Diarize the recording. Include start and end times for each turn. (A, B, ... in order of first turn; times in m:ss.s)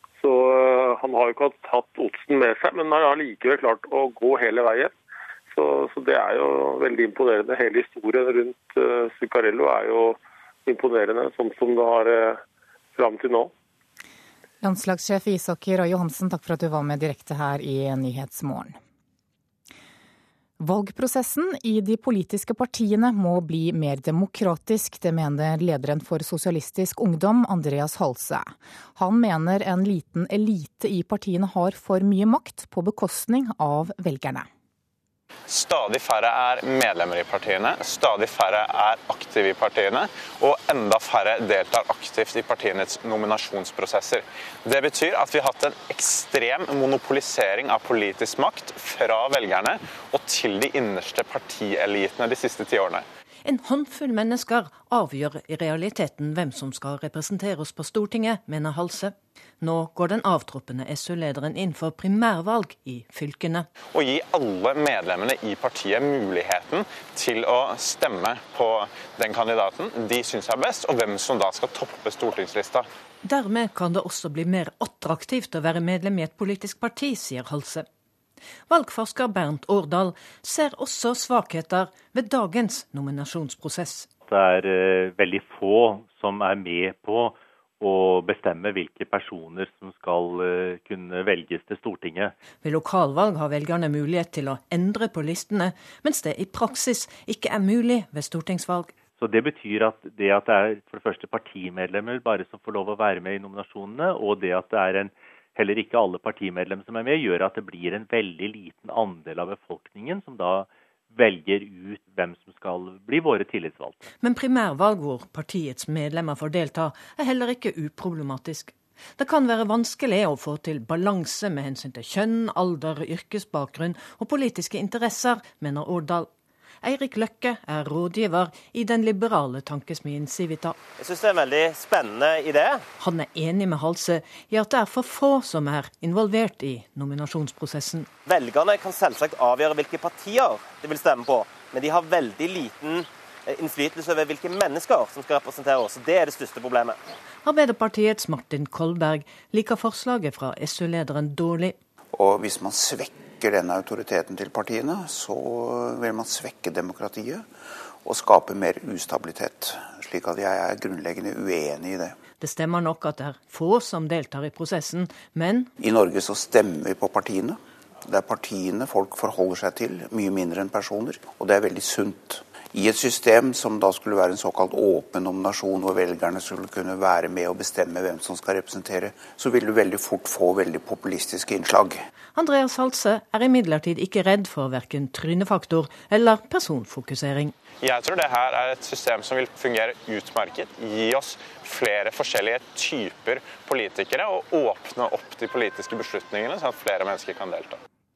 0:00.2-0:04.9 A
0:05.5-0:12.4 A
0:13.0-0:13.5 A
0:14.6-0:18.8 B
0:20.6-0:34.5 B
0:35.5-0:53.0 C
0:53.4-1:03.7 D
1:03.9-1:12.9 C
1:13.2-1:17.9 D
1:18.7-1:24.1 D
1:24.3-1:32.4 E
1:32.6-1:39.0 D
1:39.2-1:54.1 E
1:54.2-2:06.3 D
2:06.8-2:10.8 D
2:11.0-2:12.8 F
2:13.0-2:18.1 D
2:18.2-2:27.0 F
2:27.4-2:31.8 D
2:32.1-2:37.5 G
2:38.0-2:42.2 G
2:42.4-2:45.7 D
2:45.8-3:02.0 G
3:02.4-3:07.6 D
3:07.8-3:17.8 C